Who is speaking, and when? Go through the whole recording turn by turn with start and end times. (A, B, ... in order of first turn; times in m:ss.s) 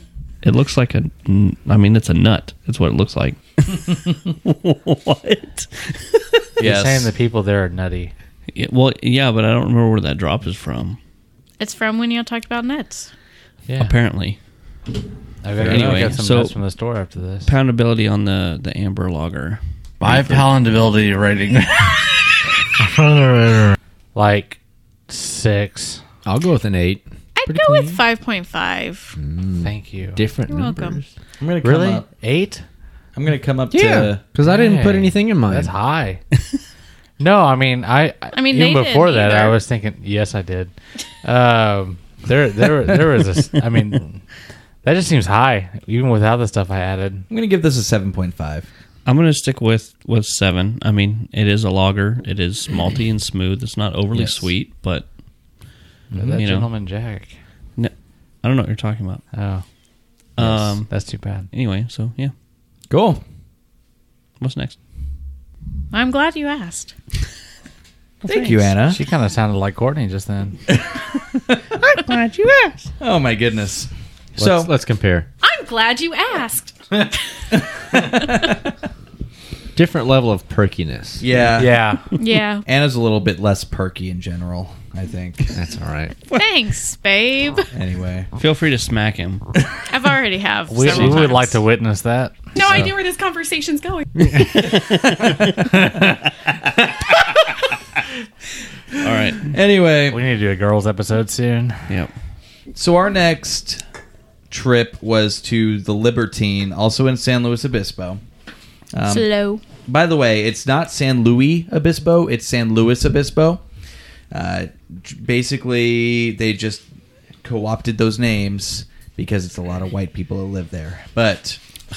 0:00.4-0:06.4 A
0:06.6-0:08.1 B
0:06.6-0:07.1 C
0:08.5-0:11.0 A
0:11.6-0:13.1 D
0:13.7-0:13.9 B
0:13.8-0:14.4 A
0:15.4-0:17.5 B
0:15.6-0:16.2 C
0:15.6-0:16.6 A
0:17.4-0:20.4 A
0:20.0-0:26.0 B
0:20.0-0:20.3 E
0:26.2-0:28.0 E
0:27.4-0:29.2 D
0:29.2-0:31.1 E
0:29.6-0:30.2 B
0:30.5-0:31.0 D
0:31.4-0:32.1 C
0:31.6-0:32.6 B
0:33.2-0:34.2 C
0:33.7-0:35.7 E
0:34.4-0:36.2 B
0:37.2-0:44.2 B
0:38.3-0:39.6 D
0:44.8-0:47.3 B
0:47.3-0:48.7 C
0:49.1-0:55.1 A
0:54.1-0:54.5 C
0:56.1-0:56.4 C
0:56.1-0:57.3 B
0:56.4-0:56.7 A
0:57.8-0:59.2 A
0:59.3-0:59.6 B
1:00.4-1:00.9 A
1:00.4-1:01.5 B
1:01.5-1:02.3 A
1:02.9-1:03.2 C
1:04.4-1:04.8 A
1:05.9-1:06.9 D
1:08.3-1:09.0 C
1:08.3-1:08.6 A
1:08.9-1:10.6 B
1:10.7-1:11.0 C
1:12.5-1:12.7 A
1:13.0-1:14.7 C
1:14.4-1:15.3 E
1:15.4-1:17.0 D
1:17.5-1:18.6 C
1:19.8-1:21.3 E
1:21.2-1:21.9 C
1:21.6-1:22.1 B
1:22.2-1:22.6 D
1:22.7-1:25.6 C
1:25.5-1:26.2 E
1:26.3-1:27.7 D
1:27.7-1:28.3 C
1:28.4-1:29.5 A
1:29.9-1:31.6 D
1:30.7-1:32.4 B
1:32.6-1:34.0 D
1:34.2-1:34.5 E
1:34.5-1:35.5 A
1:35.6-1:36.1 B
1:39.0-1:39.5 A
1:39.4-1:40.2 C
1:40.1-1:41.9 B
1:42.8-1:43.8 C
1:44.5-1:48.2 C
1:48.9-1:49.3 C
1:49.1-1:49.6 D
1:49.9-1:53.6 C
1:54.3-1:56.8 C
1:57.4-2:01.6 C